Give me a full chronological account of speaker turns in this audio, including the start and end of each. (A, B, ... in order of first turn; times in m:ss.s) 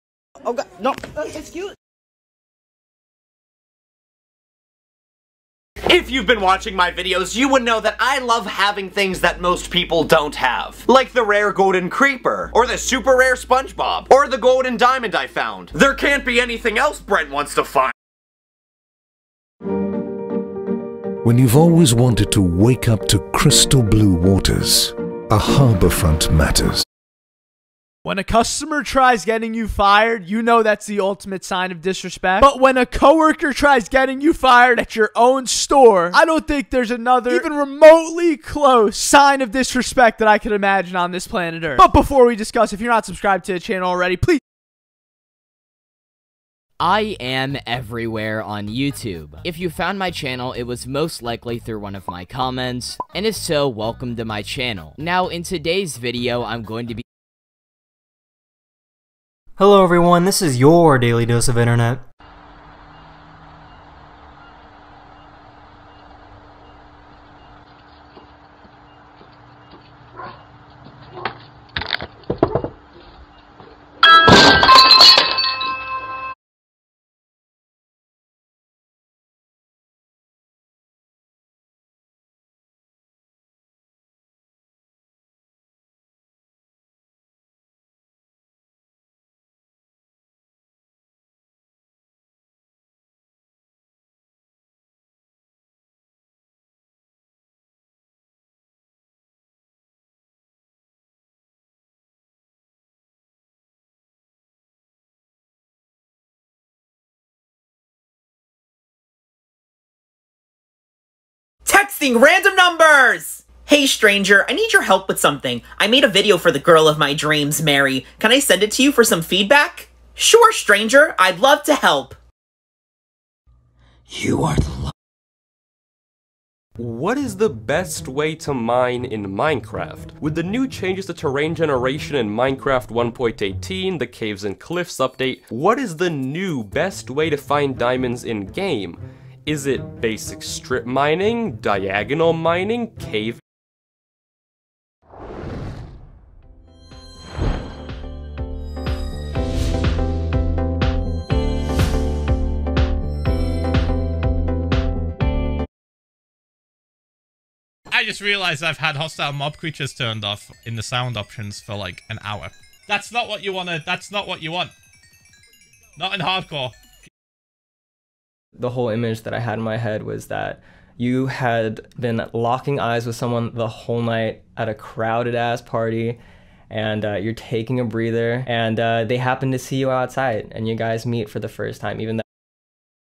0:00.4-0:01.7 A
0:05.9-0:17.9 A
0:21.2-0:26.8 B
0:28.0-0:44.4 C
0:46.8-0:57.0 D
0:59.6-1:02.0 E
1:51.6-2:02.2 F
2:06.8-2:23.4 G
2:37.9-2:44.7 H
2:46.0-2:46.7 H
2:48.6-2:56.2 I
2:56.7-3:02.2 I